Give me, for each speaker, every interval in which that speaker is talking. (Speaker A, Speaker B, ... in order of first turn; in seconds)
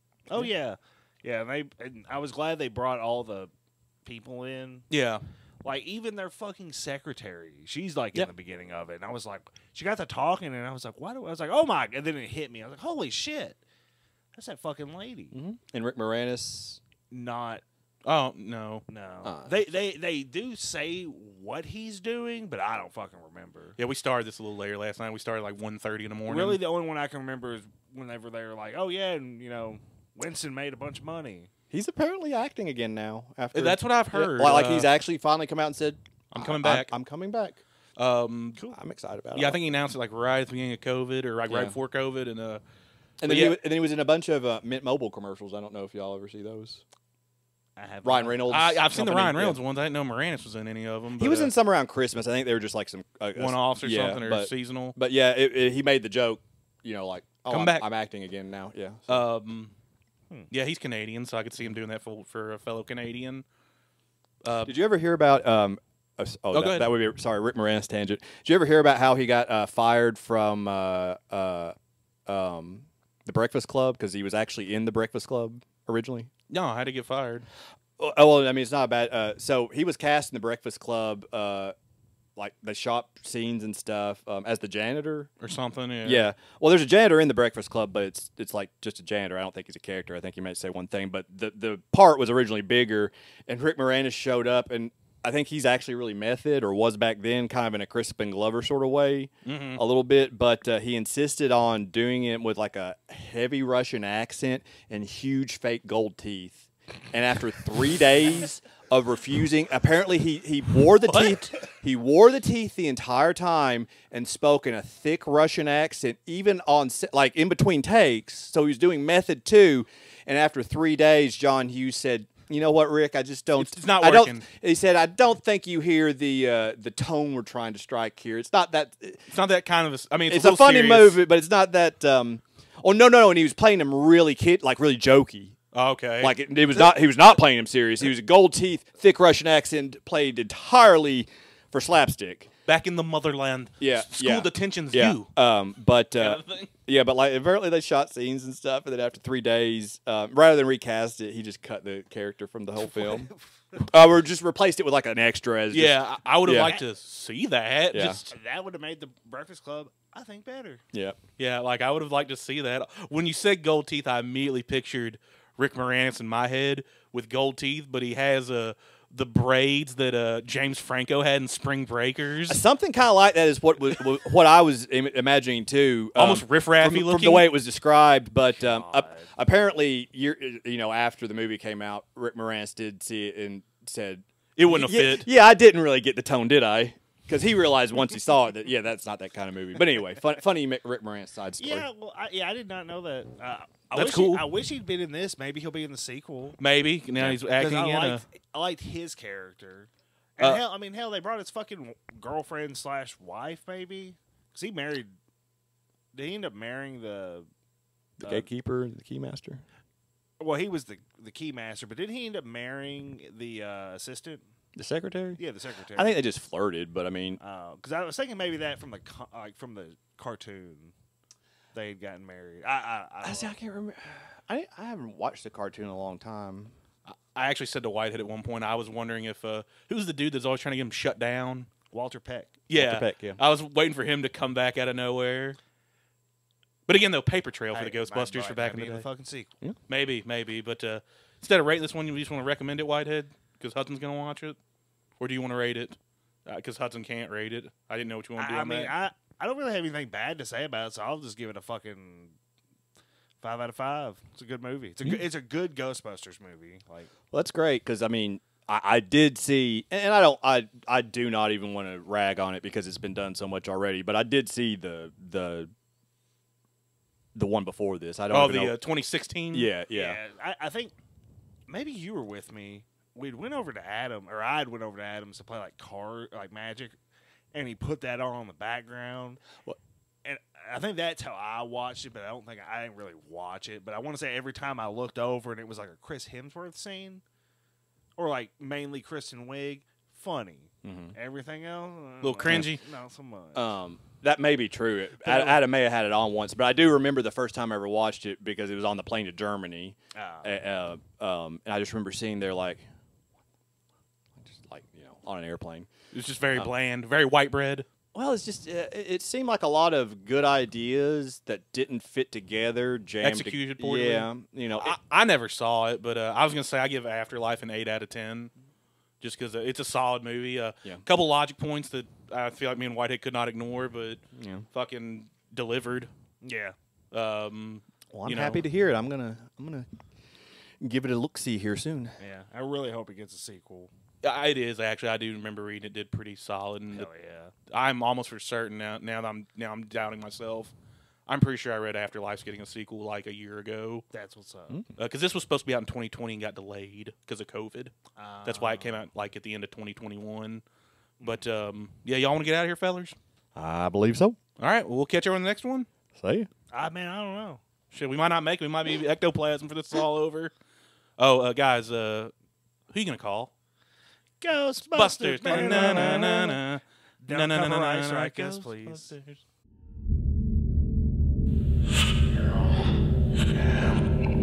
Speaker A: 0.3-3.5, 4.0-4.9, 5.6-13.6, 14.3-15.3, 17.1-17.6, 18.9-23.8, 26.3-31.5, 47.8-48.5, 152.8-153.8, 156.6-156.8, 158.3-160.8, 178.6-179.3, 191.6-196.6, 197.5-205.1, 206.1-207.5, 210.4-214.4, 215.4-216.2, 217.4-220.9, 221.7-223.6, 231.9-232.5, 237.7-239.5, 248.4-252.3, 253.4-257.1, 269.9-270.9, 271.7-276.9, 277.5-279.4, 280.2-287.2, 288.2-293.7, 295.2-295.6, 300.1-300.6, 326.4-326.7, 332.2-333.9, 336.9-337.5, 344.1-344.8, 348.1-349.0, 356.7-357.6, 364.4-366.6, 367.2-369.1
Speaker B: 4.9-5.2, 18.0-18.8, 23.8-26.6, 33.5-34.9, 36.3-36.9, 38.0-38.6, 39.3-42.6, 43.2-43.6, 48.5-51.5, 53.4-54.9, 57.5-57.8, 59.1-59.7, 60.5-63.4, 64.4-64.7, 66.5-66.9, 76.5-77.5, 85.4-86.3, 99.4-99.8, 123.6-124.5, 129.3-131.2, 135.7-136.3, 142.7-145.3, 146.2-146.7, 155.7-158.3, 161.4-172.6, 176.1-177.5, 184.6-185.3, 193.9-194.5, 196.6-198.2, 227.1-231.7, 232.7-235.6, 236.9-239.0, 239.9-244.6, 245.2-248.9, 268.3-269.7, 292.2-292.8, 306.1-307.9, 313.2-314.3, 314.8-318.5, 319.2-326.1, 327.1-328.6, 334.2-337.1, 337.7-340.7, 341.3-344.0, 345.0-347.9, 348.4-350.6, 351.2-353.1, 354.6-355.9, 357.9-360.5, 361.2-362.3, 362.9-363.5, 364.9-369.4, 373.5-373.9
Speaker C: 15.3-16.8, 19.2-19.7, 31.7-37.6, 38.7-39.6, 41.5-41.7, 43.2-46.8, 48.0-49.6, 51.2-59.2, 64.6-71.7, 72.3-76.3, 78.0-81.7, 82.4-85.3, 86.0-129.3, 130.3-135.6, 136.2-142.5, 143.8-156.7, 157.9-158.2, 160.9-161.2, 172.5-191.8, 208.2-209.6, 214.8-215.4, 215.9-217.4, 223.2-226.7, 232.7-233.4, 257.3-265.7, 267.3-268.8, 269.5-270.2, 290.8-291.1, 293.5-302.8, 304.4-305.9, 308.1-315.0, 324.4-324.6, 328.1-329.9, 330.8-332.1, 353.5-354.4, 356.1-356.5